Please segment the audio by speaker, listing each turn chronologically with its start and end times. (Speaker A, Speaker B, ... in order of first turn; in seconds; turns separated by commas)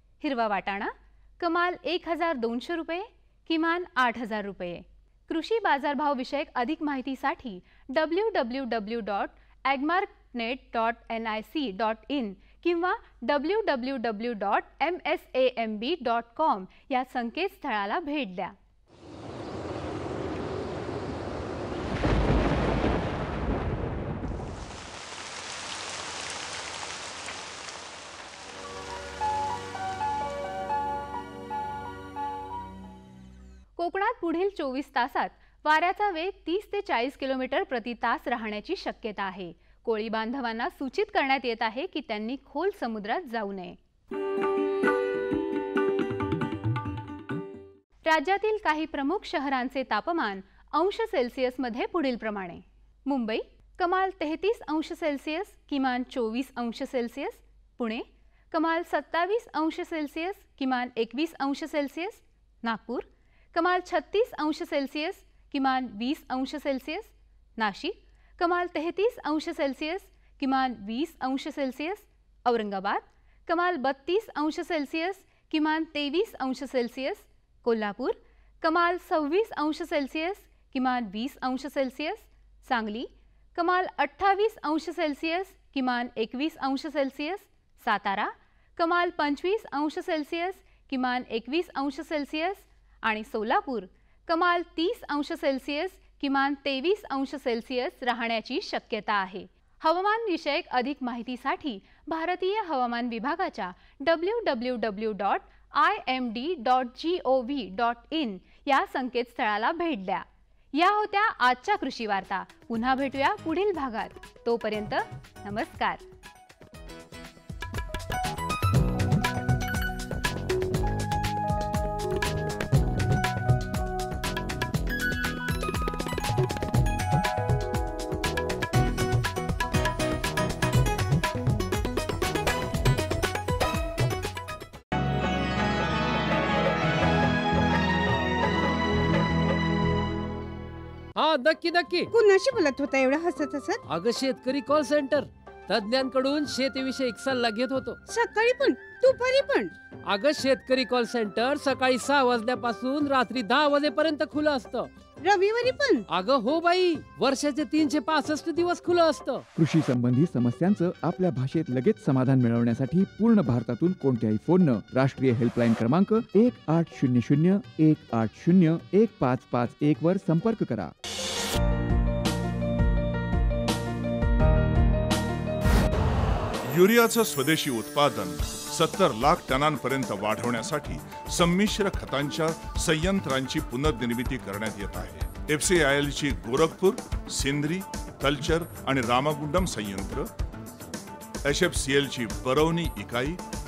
Speaker A: 0.2-18.6, Speaker A: 33.8-43.8, Speaker A: 48.0-116.0, Speaker B: 141.2-142.1, Speaker C: 142.1-143.8, Speaker B: 143.9-148.0, Speaker C: 148.1-149.7, Speaker B: 150.1-154.9, Speaker C: 155.2-156.0, Speaker B: 156.1-159.4, Speaker D: 159.6-170.9, Speaker E: 176.7-190.3, Speaker E: 191.4-193.4